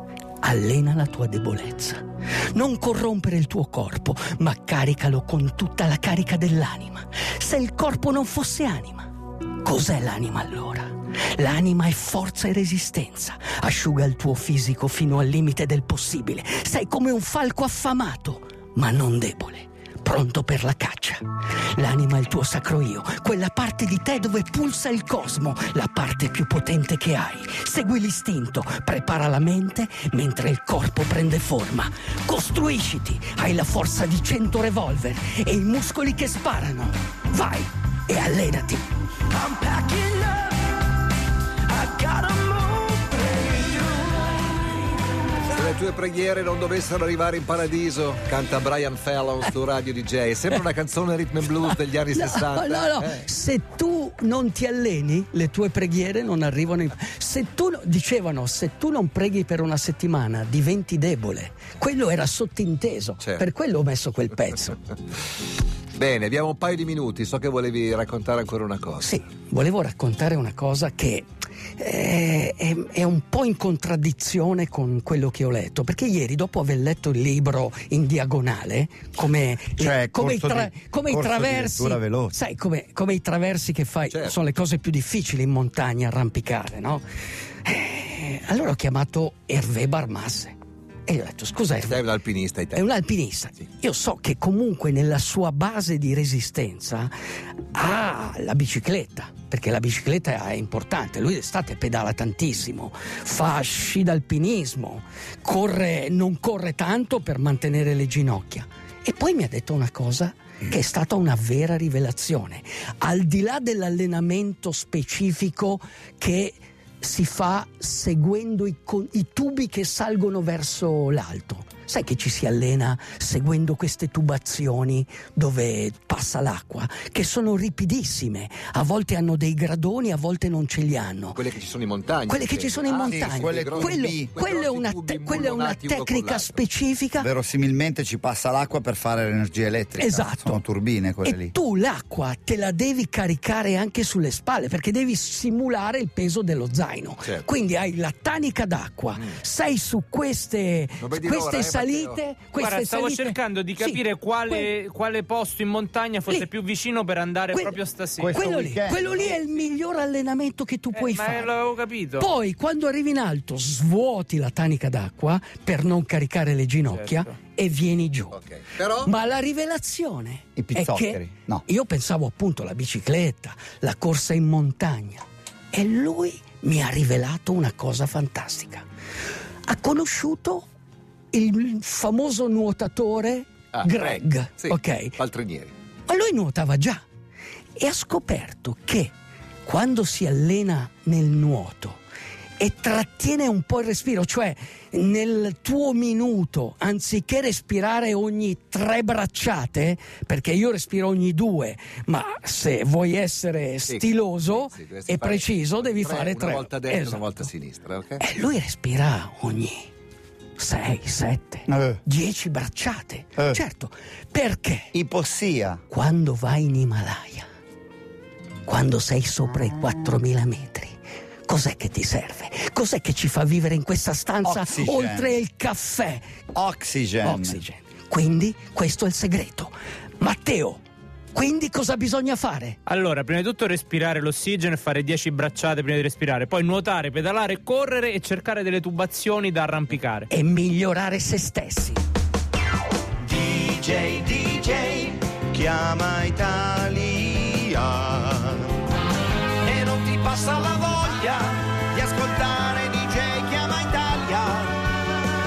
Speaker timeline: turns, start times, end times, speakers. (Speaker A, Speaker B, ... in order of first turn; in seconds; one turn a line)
Speaker A: 0.4-40.6
Speaker A: 41.7-44.4
Speaker B: 45.5-53.2
Speaker A: 52.1-64.8
Speaker B: 66.0-69.1
Speaker A: 69.0-87.0
Speaker C: 79.8-82.3
Speaker B: 84.1-84.4
Speaker A: 87.6-92.1
Speaker B: 91.9-92.8
Speaker A: 92.7-97.1
Speaker A: 97.7-131.4
Speaker B: 131.3-136.6
Speaker A: 132.3-137.3
Speaker C: 133.1-134.3
Speaker C: 137.2-141.5
Speaker A: 140.0-140.6
Speaker A: 141.2-154.7
Speaker B: 151.0-152.2
Speaker D: 152.6-158.5
Speaker A: 157.5-157.8
Speaker C: 158.2-159.2
Speaker A: 158.3-161.6
Speaker B: 158.9-159.5
Speaker D: 160.9-162.3
Speaker A: 162.2-168.4
Speaker D: 166.9-167.3
Speaker B: 168.4-169.1
Speaker A: 169.0-178.9
Speaker C: 170.6-171.6
Speaker A: 179.7-180.7
Speaker A: 181.3-185.2
Speaker B: 183.8-185.7
Speaker A: 186.1-187.1
Speaker A: 187.8-192.0
Speaker A: 192.6-207.5
Speaker B: 203.9-208.2
Speaker A: 208.2-209.9
Speaker A: 210.6-214.9
Speaker C: 211.7-212.0
Speaker C: 214.9-215.8
Speaker A: 215.9-217.5
Speaker A: 218.6-226.3
Speaker C: 224.4-225.4
Speaker C: 226.5-227.6
Speaker A: 227.2-230.8
Speaker A: 231.3-232.8
Speaker D: 232.9-240.3
Speaker A: 240.3-242.0
Speaker E: 243.3-248.5
Speaker C: 243.5-244.9
Speaker C: 245.8-247.5
Speaker E: 249.7-254.7
Speaker C: 249.8-250.2
Speaker C: 252.1-254.6